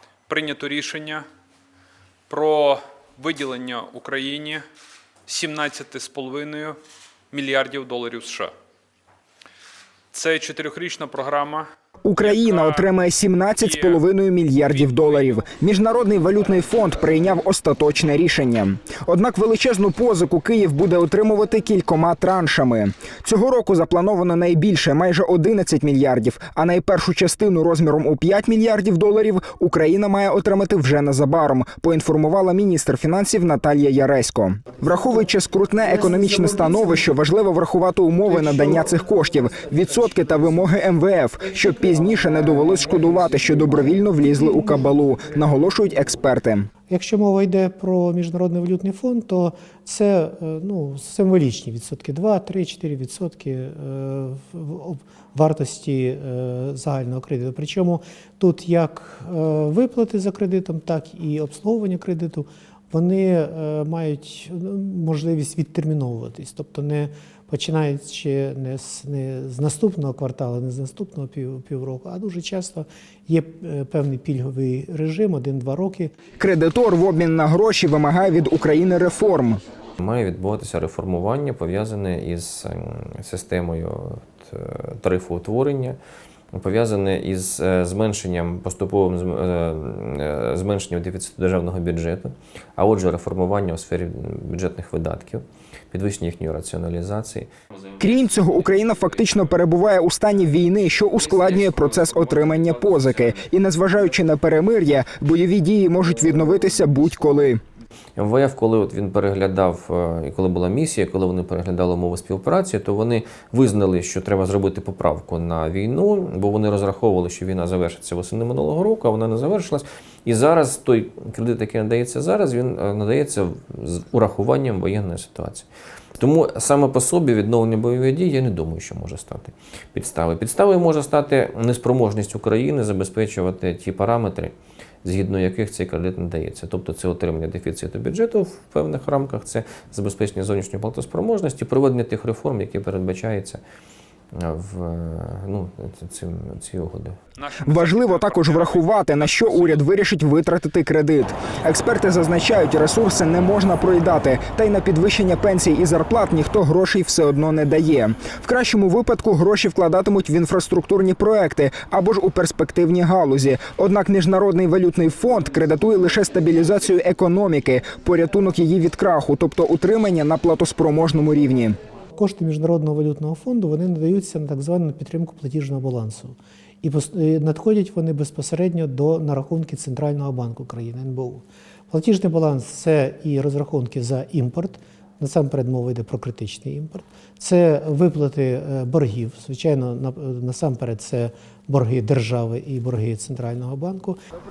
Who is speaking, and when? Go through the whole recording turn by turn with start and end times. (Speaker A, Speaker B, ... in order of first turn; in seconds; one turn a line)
Speaker A: 0.3-1.2
Speaker A: 2.3-4.6
Speaker A: 5.3-6.8
Speaker A: 7.3-8.5
Speaker A: 10.1-11.7
Speaker B: 12.1-46.7
Speaker A: 12.2-12.8
Speaker A: 13.6-13.9
Speaker A: 14.7-15.2
Speaker C: 46.9-76.2
Speaker B: 76.4-79.6
Speaker D: 80.0-86.0
Speaker D: 86.5-97.5
Speaker B: 98.0-107.6
Speaker D: 98.3-98.8
Speaker D: 101.5-102.6
Speaker D: 108.2-143.6
Speaker D: 144.3-147.2
Speaker A: 147.4-149.8
Speaker B: 147.6-171.8
Speaker C: 172.1-194.2